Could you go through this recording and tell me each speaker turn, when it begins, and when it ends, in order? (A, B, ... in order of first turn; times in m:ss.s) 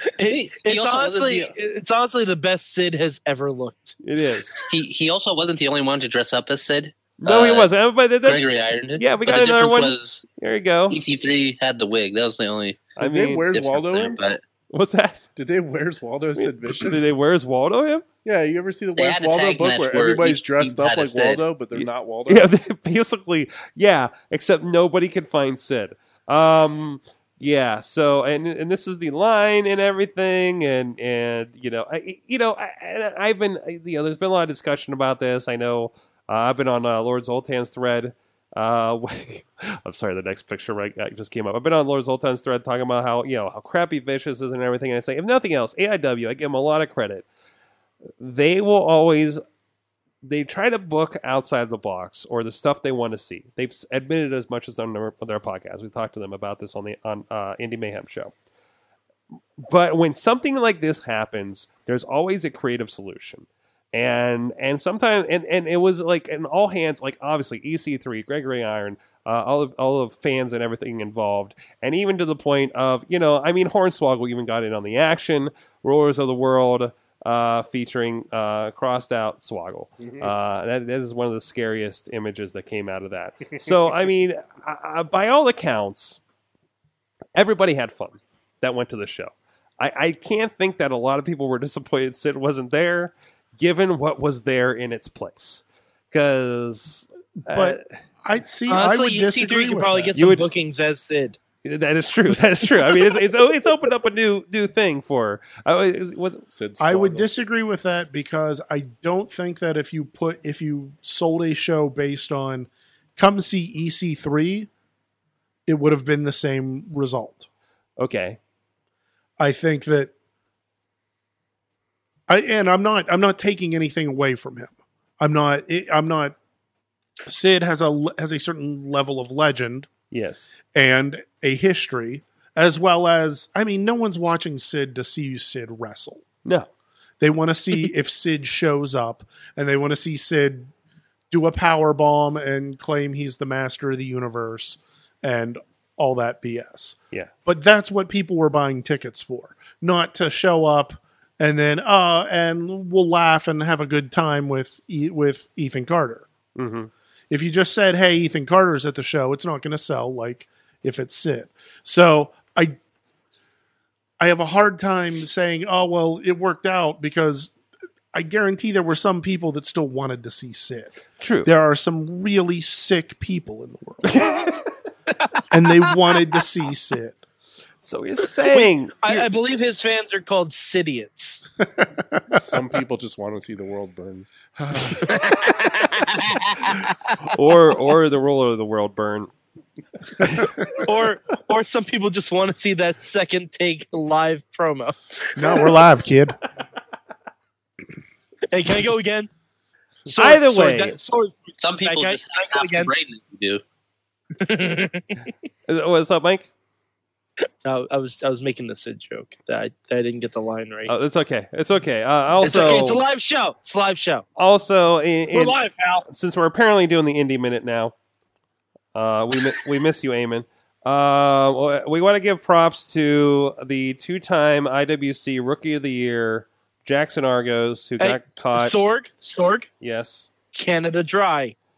0:00.1-0:04.0 A
0:00.3-0:01.5 B
0:04.0-0:04.6 C
0:04.7-0:07.7 B
0:07.2-0:11.0 C
0:08.2-0:10.2 B
0:10.9-0:12.9 B
0:13.0-0:14.2 D
0:13.0-0:13.5 C
0:13.5-0:14.4 B
0:14.7-0:15.3 C
0:15.4-0:17.1 D
0:16.4-0:18.0 C
0:18.2-0:22.5 D
0:19.0-0:21.4 B
0:21.7-0:47.2 C
0:48.2-0:49.4 C
0:50.2-0:58.3 C
0:59.6-1:26.2 C
1:20.0-1:20.3 D
1:27.3-1:37.9 C
1:37.4-1:40.1 E
1:38.7-1:41.4 A
1:40.2-1:40.5 C
1:41.6-1:46.4 C
1:46.5-1:47.3 D
1:46.8-1:54.7 E
1:55.6-1:57.5 E
1:58.0-1:58.4 C
1:59.4-2:00.1 E
2:02.3-2:06.4 E
2:07.2-2:09.9 E
2:10.1-2:10.6 C
2:10.7-2:16.2 E
2:17.2-2:20.7 E
2:21.3-2:36.3 E
2:36.6-2:36.9 C
2:37.3-2:42.8 E
2:44.2-2:47.5 E
2:48.1-2:54.3 E
2:51.2-2:51.5 C
2:54.1-2:54.6 C
2:55.5-2:57.2 E
2:57.8-2:59.3 C
2:58.5-3:01.4 A
3:01.6-3:02.4 E
3:02.3-3:04.3 D
3:04.6-3:04.9 E
3:05.0-3:06.8 A
3:07.2-3:09.3 C
3:10.2-3:10.5 C
3:10.8-3:15.7 A
3:15.4-3:16.4 E
3:18.5-3:19.3 A
3:20.0-3:22.9 A
3:20.1-3:21.0 C
3:21.6-3:23.6 B
3:24.4-3:25.3 A
3:25.7-3:26.5 C
3:27.6-3:30.9 A
3:30.9-3:33.0 C
3:32.4-3:34.2 A
3:34.4-3:37.9 C
3:35.3-3:36.0 A
3:38.9-3:48.7 C
3:48.0-3:49.7 A
3:49.8-3:50.3 C
3:50.5-3:51.5 A